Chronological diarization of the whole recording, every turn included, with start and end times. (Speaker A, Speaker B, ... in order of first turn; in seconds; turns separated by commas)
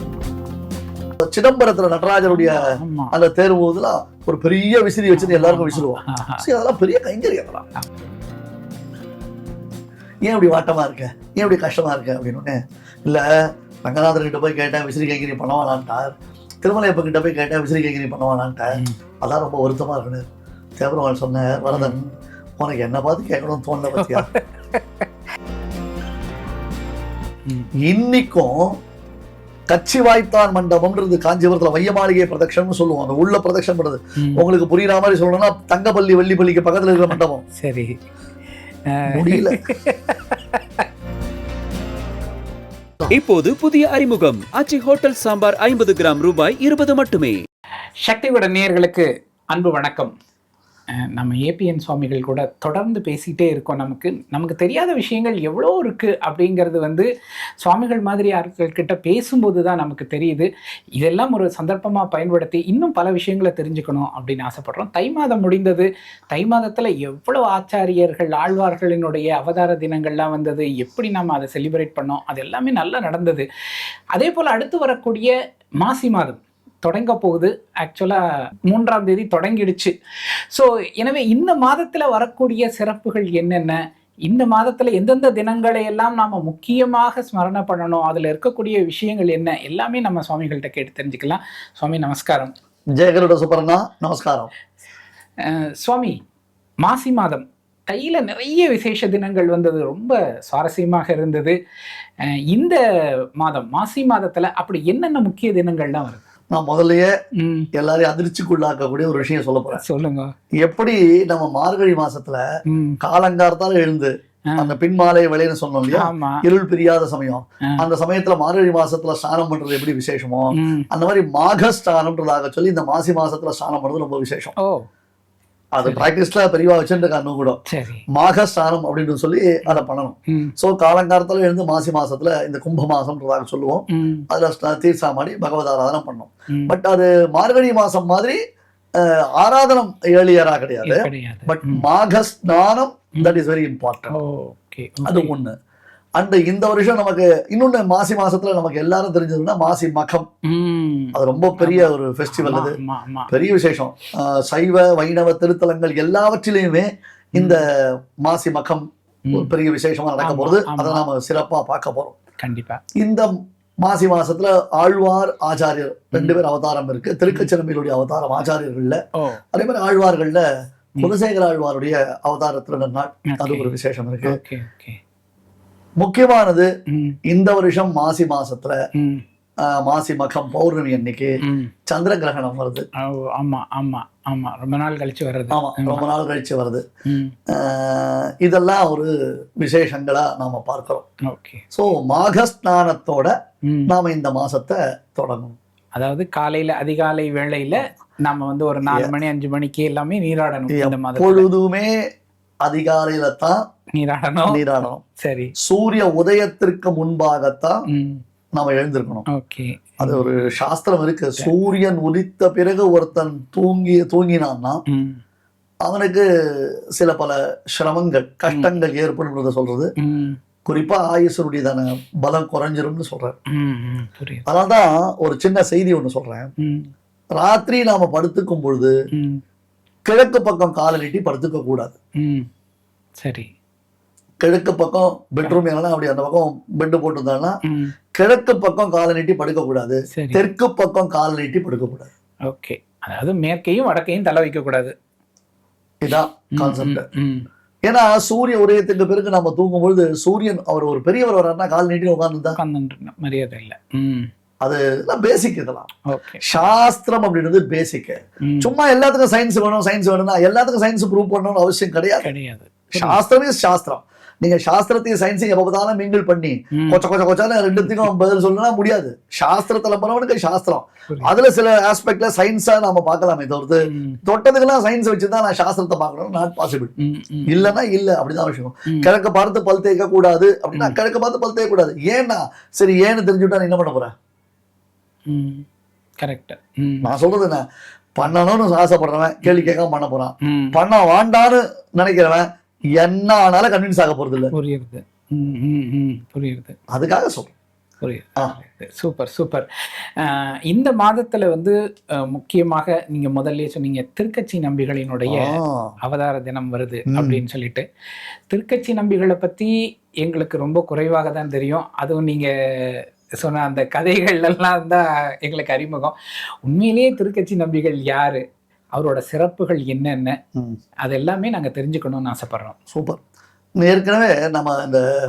Speaker A: 1.2-7.6, Speaker B: 2.3-3.1, Speaker B: 5.1-6.4, Speaker A: 10.2-13.2, Speaker A: 13.8-20.2, Speaker A: 20.8-24.3, Speaker B: 21.7-22.0, Speaker B: 24.0-25.1, Speaker A: 27.8-28.7, Speaker A: 29.7-37.4, Speaker B: 37.0-38.0, Speaker B: 38.9-40.9, Speaker A: 39.1-39.6, Speaker C: 43.1-47.4, Speaker B: 48.0-50.1, Speaker B: 51.0-57.1, Speaker B: 57.6-73.5, Speaker B: 74.1-79.9, Speaker B: 80.5-92.5, Speaker A: 93.0-94.5, Speaker B: 95.4-96.2, Speaker B: 96.8-101.6, Speaker B: 102.5-102.8, Speaker B: 103.4-106.2, Speaker A: 106.5-107.1, Speaker B: 107.4-107.7, Speaker A: 107.8-109.8, Speaker B: 109.8-110.3, Speaker A: 110.6-112.4, Speaker B: 112.7-113.0, Speaker A: 113.0-124.5, Speaker B: 115.9-116.4, Speaker B: 120.6-120.9, Speaker B: 124.6-124.8, Speaker A: 125.8-127.6, Speaker B: 125.8-126.1, Speaker B: 127.7-128.0, Speaker A: 128.1-138.4, Speaker B: 129.7-130.5, Speaker B: 133.9-134.2, Speaker A: 139.0-144.1, Speaker B: 140.8-141.8, Speaker B: 144.1-145.3, Speaker A: 145.0-145.5, Speaker A: 146.2-150.3, Speaker B: 150.5-153.3, Speaker A: 151.2-152.7, Speaker A: 153.3-157.7, Speaker A: 158.2-162.2, Speaker B: 160.2-161.0, Speaker B: 162.4-162.8, Speaker A: 163.0-163.3, Speaker A: 163.8-169.0, Speaker B: 166.1-166.4, Speaker A: 169.5-170.4, Speaker A: 171.0-174.3, Speaker B: 173.3-173.7, Speaker B: 174.2-175.0, Speaker A: 176.0-176.7, Speaker B: 176.9-177.2, Speaker A: 177.3-178.8, Speaker B: 179.0-179.2, Speaker A: 179.7-181.3, Speaker B: 181.4-181.7, Speaker A: 181.9-182.8, Speaker B: 183.0-186.0, Speaker A: 185.5-186.8, Speaker B: 187.1-187.3, Speaker A: 187.6-189.1, Speaker A: 189.6-191.0, Speaker B: 191.3-191.6, Speaker A: 191.7-193.3, Speaker B: 193.7-193.9, Speaker A: 193.9-195.6, Speaker B: 196.0-201.5, Speaker A: 200.7-201.9, Speaker A: 202.6-203.6, Speaker B: 204.0-205.5, Speaker A: 204.5-205.0, Speaker A: 205.6-207.8, Speaker B: 207.9-208.2, Speaker A: 208.6-209.2, Speaker B: 209.3-210.2, Speaker A: 210.0-214.8, Speaker B: 214.9-215.2, Speaker A: 215.8-216.2, Speaker A: 217.0-219.9, Speaker B: 220.0-220.4, Speaker A: 220.7-223.3, Speaker B: 223.5-224.4, Speaker A: 224.5-226.5, Speaker B: 226.6-226.9, Speaker A: 227.4-228.9, Speaker B: 229.2-229.4, Speaker A: 230.1-232.0, Speaker B: 232.2-232.5, Speaker B: 233.2-233.5, Speaker A: 234.4-237.5, Speaker B: 237.7-237.9, Speaker A: 238.2-242.1, Speaker B: 240.2-240.4, Speaker B: 242.5-244.9, Speaker A: 246.0-247.0, Speaker B: 246.6-247.5, Speaker A: 247.9-252.6, Speaker B: 252.6-254.3, Speaker A: 254.6-255.9, Speaker B: 256.1-256.7, Speaker A: 256.4-262.3, Speaker B: 262.2-263.2, Speaker A: 262.9-276.9, Speaker B: 267.8-268.1, Speaker B: 273.9-274.2, Speaker B: 277.0-277.7, Speaker A: 277.5-284.1, Speaker B: 285.3-285.6, Speaker B: 286.2-287.1, Speaker A: 287.0-287.6, Speaker A: 288.1-292.4, Speaker B: 289.4-289.7, Speaker B: 290.4-290.8, Speaker A: 293.0-294.5, Speaker B: 294.5-296.8, Speaker A: 296.9-297.6, Speaker B: 298.0-301.7, Speaker B: 302.2-307.9, Speaker A: 305.3-305.9, Speaker A: 307.1-307.4, Speaker B: 308.5-309.7, Speaker B: 310.2-318.4, Speaker B: 318.9-320.4, Speaker B: 321.0-322.8, Speaker A: 322.9-323.2, Speaker A: 323.8-325.0